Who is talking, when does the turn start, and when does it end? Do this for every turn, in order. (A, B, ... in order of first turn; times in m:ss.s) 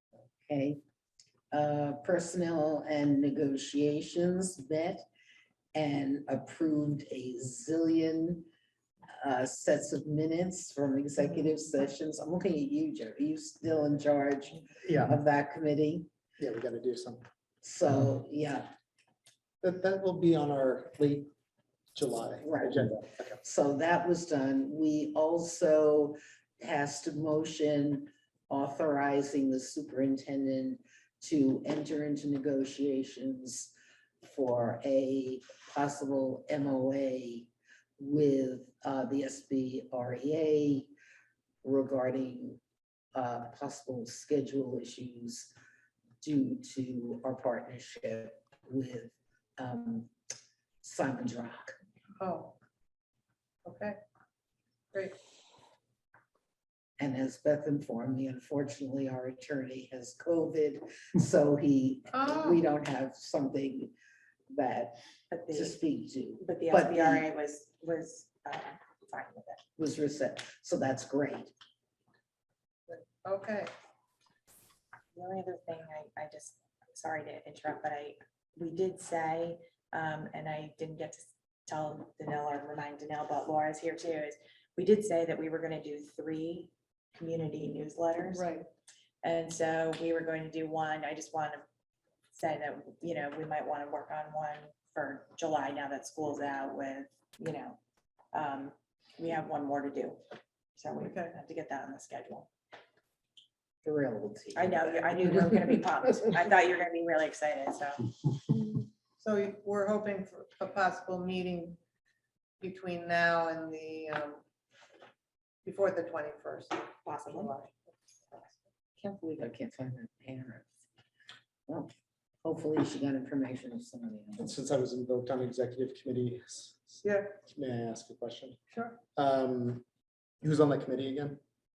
0:00.5-0:00.8 A
0:01.5-0:05.1 A
0:05.7-0:08.5 A
0:09.2-0:16.1 A
0:14.8-0:15.2 B
0:16.4-0:17.2 B
0:17.6-0:18.7 A
0:19.6-0:21.3 B
0:22.0-0:23.4 B
0:22.4-0:40.9 A
0:41.6-0:42.6 A
0:43.2-0:45.5 A
0:46.2-0:50.1 A
0:50.8-0:51.8 A
0:52.2-0:52.6 C
0:53.6-0:54.0 C
0:57.0-1:03.9 A
1:02.1-1:02.6 C
1:04.5-1:05.0 A
1:05.3-1:05.8 D
1:05.5-1:07.3 A
1:06.4-1:09.6 D
1:09.8-1:11.5 A
1:12.9-1:13.7 C
1:15.1-1:28.5 D
1:28.3-1:28.7 C
1:29.2-1:31.6 D
1:32.3-1:37.8 D
1:38.3-1:40.2 D
1:40.8-1:42.5 D
1:41.0-1:41.3 C
1:43.8-1:46.4 A
1:44.6-1:48.0 D
1:49.2-1:51.8 C
1:52.6-1:54.4 C
1:55.6-1:57.7 C
1:57.0-1:57.6 D
1:58.3-1:58.6 C
1:59.0-2:00.7 A
2:02.4-2:04.6 A
2:04.4-2:08.6 B
2:07.0-2:07.3 C
2:08.7-2:09.0 C
2:09.2-2:09.8 B
2:10.4-2:11.4 B